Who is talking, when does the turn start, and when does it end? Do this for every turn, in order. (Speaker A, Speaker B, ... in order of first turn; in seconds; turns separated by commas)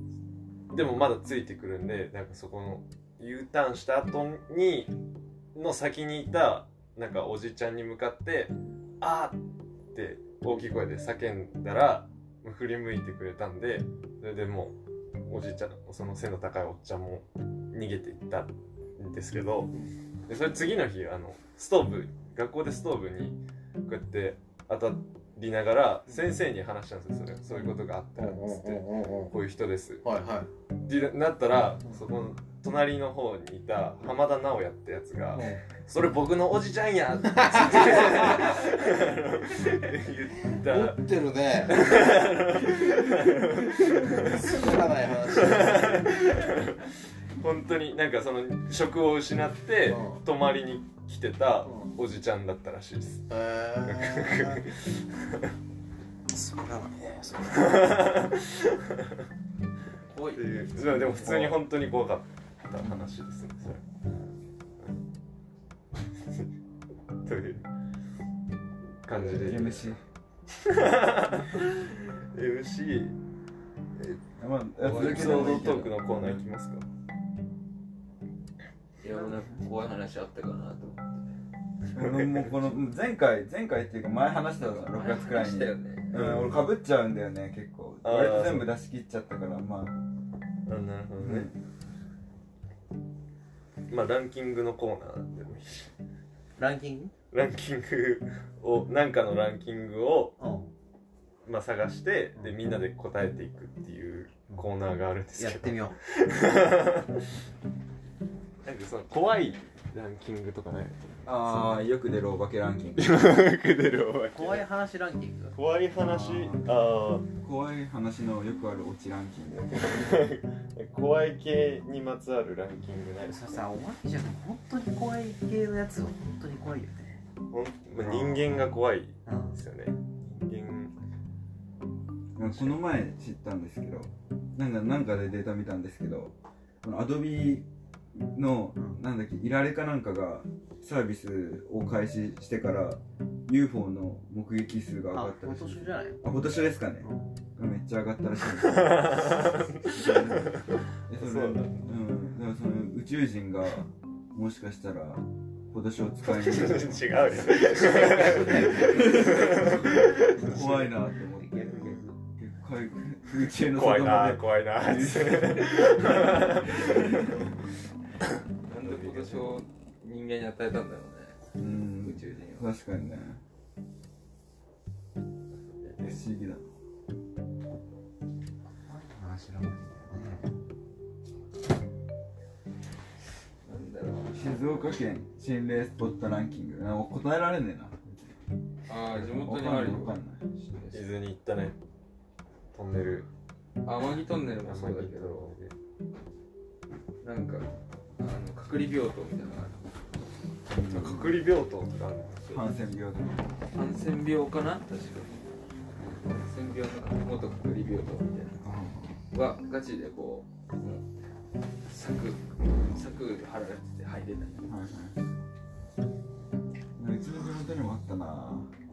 Speaker A: 0.7-5.0, Speaker A: 5.5-9.4, Speaker A: 9.9-19.7, Speaker A: 20.3-30.1, Speaker B: 27.5-29.4, Speaker B: 30.0-30.5, Speaker A: 30.9-41.1, Speaker B: 35.3-35.6, Speaker B: 37.3-38.6, Speaker B: 40.5-41.9, Speaker A: 41.6-44.6, Speaker B: 44.0-46.3, Speaker A: 45.3-46.9, Speaker A: 47.4-55.5, Speaker B: 49.9-50.2, Speaker B: 51.6-52.0, Speaker B: 53.3-54.6, Speaker B: 56.3-58.1, Speaker A: 57.5-59.2, Speaker C: 60.1-61.1, Speaker A: 60.3-63.8, Speaker D: 60.8-61.6, Speaker A: 66.2-66.5, Speaker A: 67.2-67.7, Speaker A: 69.0-70.0, Speaker D: 69.1-70.0, Speaker A: 70.5-73.2, Speaker D: 74.4-76.4, Speaker C: 74.8-75.8, Speaker A: 74.8-76.8, Speaker C: 79.0-81.3, Speaker A: 81.9-82.5, Speaker D: 81.9-90.0, Speaker C: 84.6-86.2, Speaker A: 86.1-86.7, Speaker A: 88.0-88.7, Speaker A: 90.7-91.5, Speaker D: 91.2-91.6, Speaker A: 93.9-95.9, Speaker B: 96.6-97.2, Speaker A: 97.3-100.4, Speaker B: 100.4-100.7, Speaker A: 101.5-107.2, Speaker B: 105.3-106.0, Speaker A: 108.6-111.7, Speaker D: 111.2-113.3, Speaker A: 113.0-114.7, Speaker B: 114.3-115.6, Speaker A: 115.5-117.3, Speaker D: 116.0-116.7, Speaker D: 117.4-120.0, Speaker A: 119.7-123.6, Speaker B: 123.2-127.2, Speaker A: 127.5-130.9, Speaker B: 128.0-128.6, Speaker B: 129.3-129.6, Speaker D: 132.3-167.0, Speaker B: 145.1-146.2, Speaker A: 148.6-151.9, Speaker A: 156.3-160.8, Speaker B: 157.7-162.1, Speaker A: 161.7-162.0, Speaker A: 163.7-167.3, Speaker C: 168.7-171.4, Speaker A: 168.8-169.4, Speaker D: 171.6-173.4, Speaker C: 171.9-172.7, Speaker D: 176.0-176.7, Speaker B: 178.9-180.5, Speaker C: 183.6-184.9, Speaker D: 184.3-188.3, Speaker C: 188.9-191.1, Speaker D: 189.1-190.4, Speaker A: 190.9-191.8, Speaker A: 192.7-193.3, Speaker C: 193.8-195.5, Speaker A: 194.6-195.7, Speaker C: 197.2-197.7, Speaker C: 198.2-200.0, Speaker D: 200.7-201.4, Speaker A: 200.9-202.6, Speaker D: 202.5-203.6, Speaker C: 203.7-205.5, Speaker C: 206.2-208.6, Speaker D: 208.6-209.2, Speaker C: 209.3-211.1, Speaker C: 211.9-214.7, Speaker D: 214.7-215.2, Speaker D: 217.0-218.7